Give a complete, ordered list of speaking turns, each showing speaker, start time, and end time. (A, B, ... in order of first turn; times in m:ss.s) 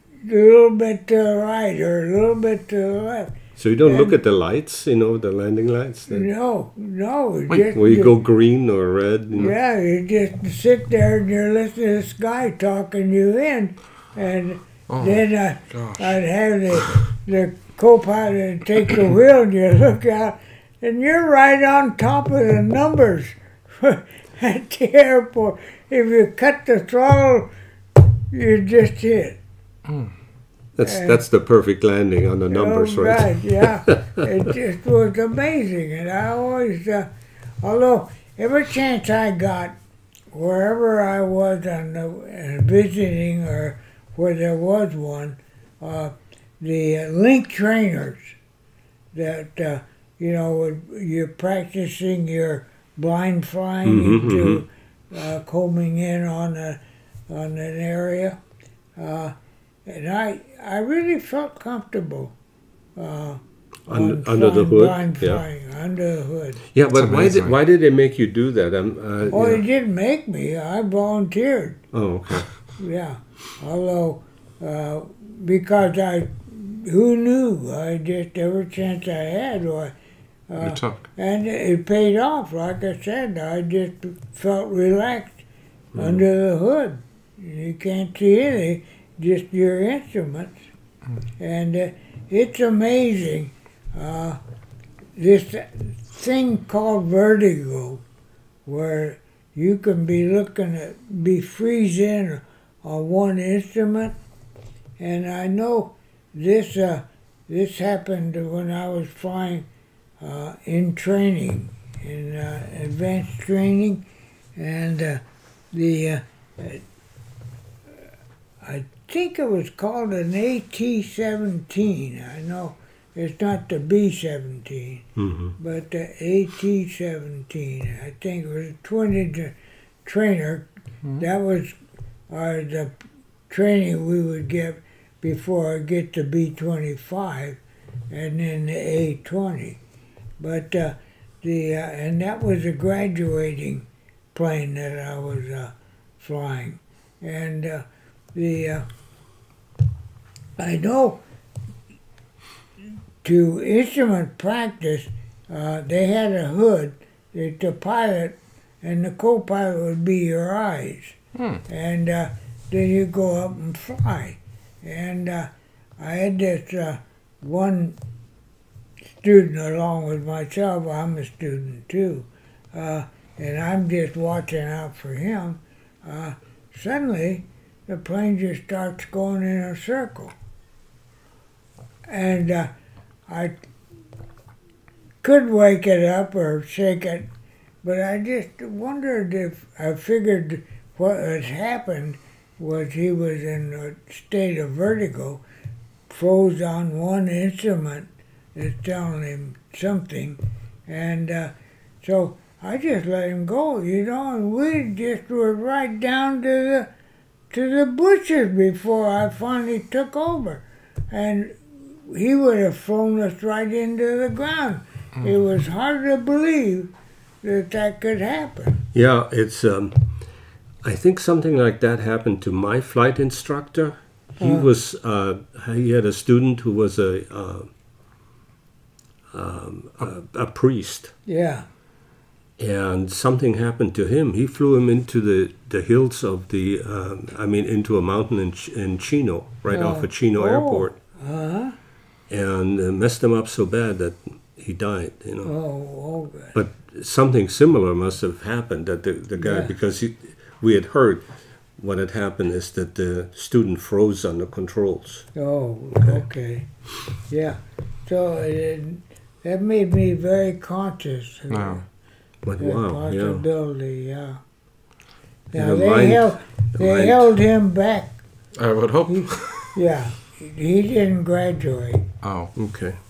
0:00.2-0:04.1 A
0:03.6-0:06.3 B
0:06.1-0:08.1 A
0:07.7-0:09.5 B
0:09.3-0:27.5 A
0:14.9-0:16.2 C
0:28.3-0:29.4 A
0:29.8-0:30.1 C
0:30.8-0:34.0 B
0:30.8-0:31.2 A
0:32.5-0:37.1 A
0:37.6-0:39.8 A
0:40.3-0:48.3 A
0:49.1-0:58.4 A
0:53.8-0:54.6 B
0:59.0-0:59.3 A
0:59.8-1:02.3 A
1:03.0-1:06.6 A
1:03.9-1:05.4 B
1:06.7-1:09.6 B
1:06.9-1:07.6 C
1:09.3-1:11.8 A
1:11.9-1:12.5 B
1:12.8-1:19.9 A
1:20.5-1:25.4 A
1:20.6-1:21.0 C
1:25.9-1:26.2 B
1:26.0-1:30.6 A
1:31.4-1:34.4 A
1:35.2-1:38.0 A
1:38.6-1:44.1 A
1:45.0-1:49.7 A
1:50.2-1:55.2 A
1:55.7-1:56.8 A
1:58.6-2:09.5 A
2:05.2-2:05.6 B
2:10.0-2:10.7 A
2:11.2-2:11.8 A
2:12.3-2:12.9 A
2:13.5-2:17.6 A
2:18.1-2:19.8 A
2:20.4-2:28.8 A
2:30.6-2:31.2 A
2:33.2-2:41.2 A
2:41.3-2:41.6 C
2:41.7-2:48.0 A
2:49.2-3:00.3 A
3:02.1-3:02.7 A
3:03.3-3:03.5 A
3:05.2-3:07.3 A
3:07.8-3:15.4 A
3:16.1-3:26.9 A
3:27.5-3:36.9 A
3:37.4-3:38.8 A
3:38.9-3:40.1 B
3:40.8-3:47.7 B
3:44.4-3:44.7 A
3:49.3-3:51.1 B
3:51.3-3:51.6 A
3:52.6-4:01.0 B
3:59.7-4:01.7 A
4:02.3-4:05.5 B
4:05.4-4:06.5 A
4:06.5-4:11.2 B
4:09.3-4:09.7 A
4:11.8-4:15.3 B
4:15.3-4:16.7 A
4:17.3-4:21.8 A
4:21.5-4:21.8 C
4:22.4-4:23.4 B
4:22.6-4:24.4 A
4:25.5-4:28.2 A
4:25.5-4:27.3 B
4:28.6-4:29.8 C
4:29.1-4:32.0 A
4:32.2-4:32.5 C
4:32.5-4:33.0 B